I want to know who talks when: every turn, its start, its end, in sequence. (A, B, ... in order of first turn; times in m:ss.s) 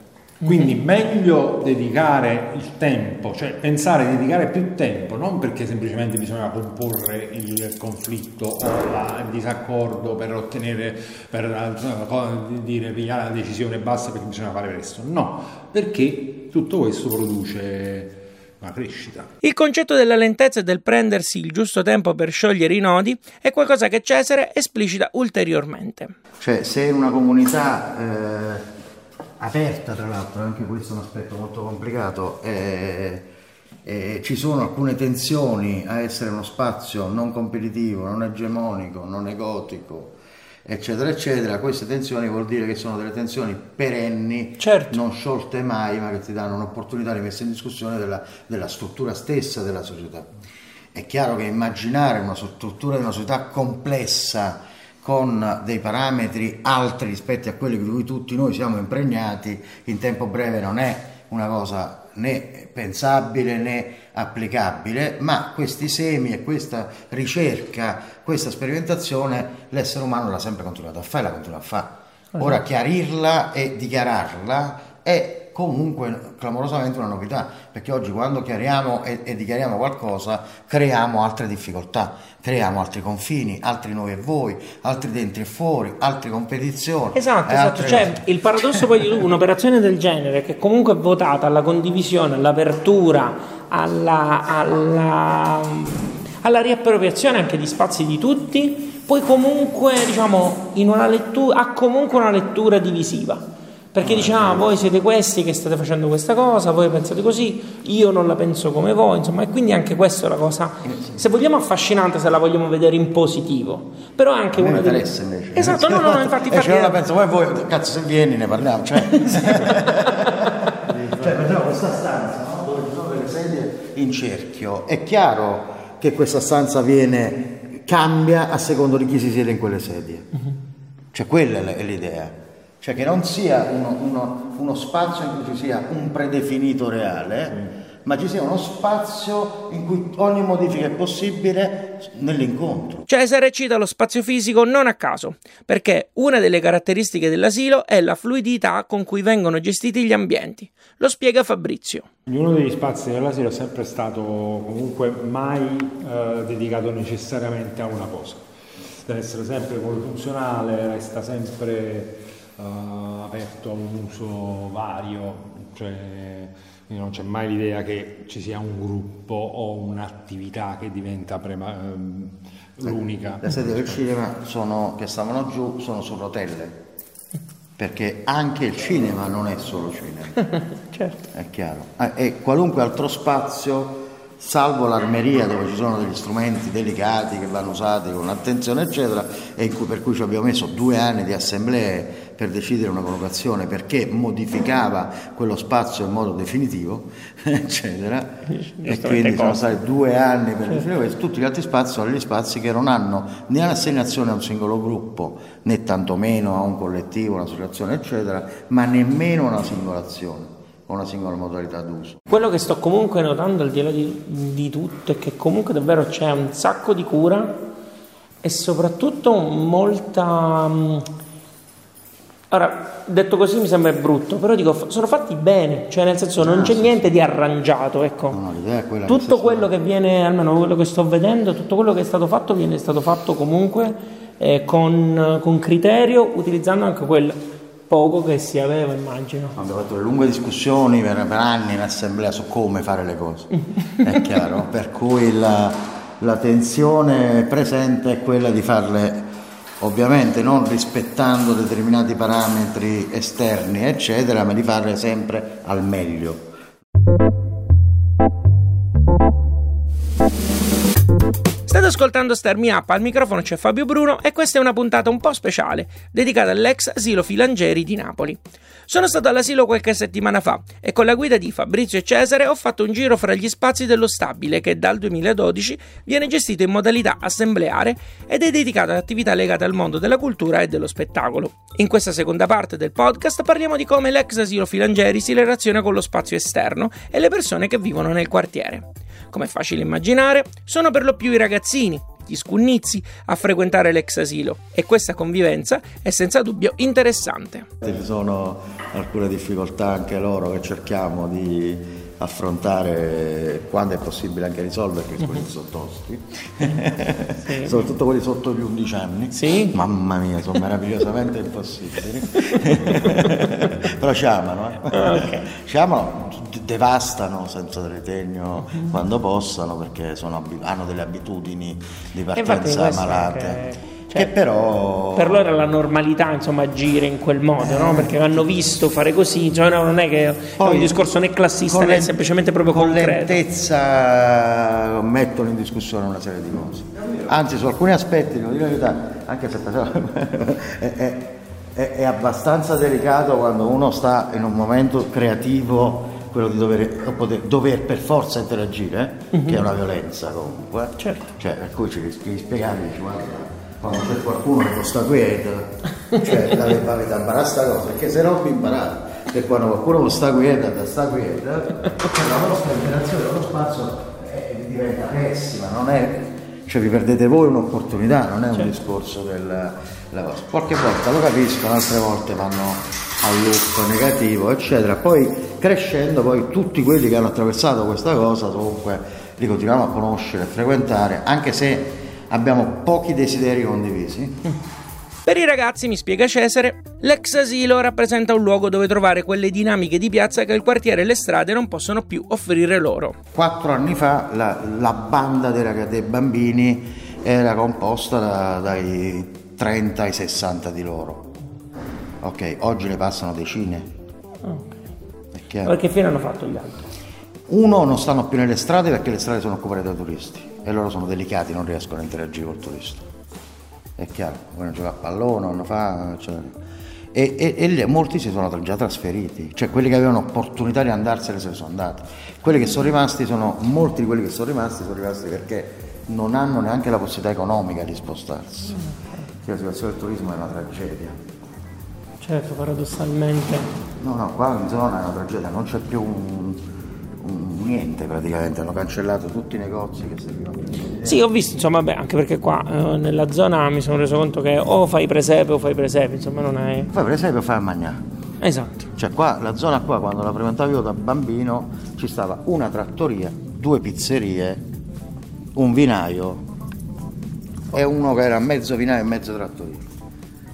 0:00.4-0:00.7 A
0:00.4-0:19.3 B
0:19.4-0:26.1 A
0:26.4-0:28.7 C
0:29.4-0:33.3 C
0:33.8-0:50.3 C
0:44.6-0:45.0 A
0:50.9-1:28.8 C
1:12.3-1:12.6 A
1:27.1-1:57.0 A
1:44.0-1:44.8 C
1:50.8-1:51.1 C
1:54.6-2:10.3 C
1:59.4-1:59.7 A
2:11.1-2:23.1 C
2:23.1-2:32.1 A
2:32.3-2:38.4 B
2:39.0-2:54.0 B
2:53.4-2:56.8 C
2:57.8-3:00.4 C
3:00.9-3:01.2 A
3:01.3-3:32.2 C
3:18.5-3:19.6 A
3:32.3-3:37.6 A
3:38.4-3:41.1 A
3:42.5-3:48.4 A
3:46.4-3:46.9 C
3:48.3-3:49.7 C
3:49.1-3:57.4 A
3:57.9-3:59.6 A
3:59.6-4:09.3 C
4:09.8-4:16.5 C
4:21.7-4:57.7 A
4:57.8-5:23.6 C
5:07.4-5:07.8 A
5:09.3-5:09.8 A
5:12.5-5:13.3 A
5:14.9-5:15.5 A
5:22.3-5:24.3 A
5:24.1-5:25.7 C
5:25.1-5:33.4 A
5:27.6-5:28.2 C
5:30.6-5:31.0 C
5:31.7-6:24.4 C
5:49.3-5:49.6 A
6:25.2-6:33.2 A
6:33.3-6:41.3 C
6:42.2-6:43.9 C
6:44.4-6:44.8 A
6:45.3-6:45.7 C
6:45.6-6:46.8 A
6:47.5-6:53.0 C
6:54.0-6:56.5 C
6:57.1-7:08.8 C
7:08.7-7:09.2 A
7:09.4-7:11.2 C
7:12.2-7:13.7 A
7:14.0-7:16.6 C
7:17.2-7:21.2 C
7:21.0-7:26.9 A
7:26.9-7:28.0 C
7:28.4-7:28.9 A
7:29.0-7:34.6 C
7:35.5-7:36.4 C
7:37.7-7:39.8 C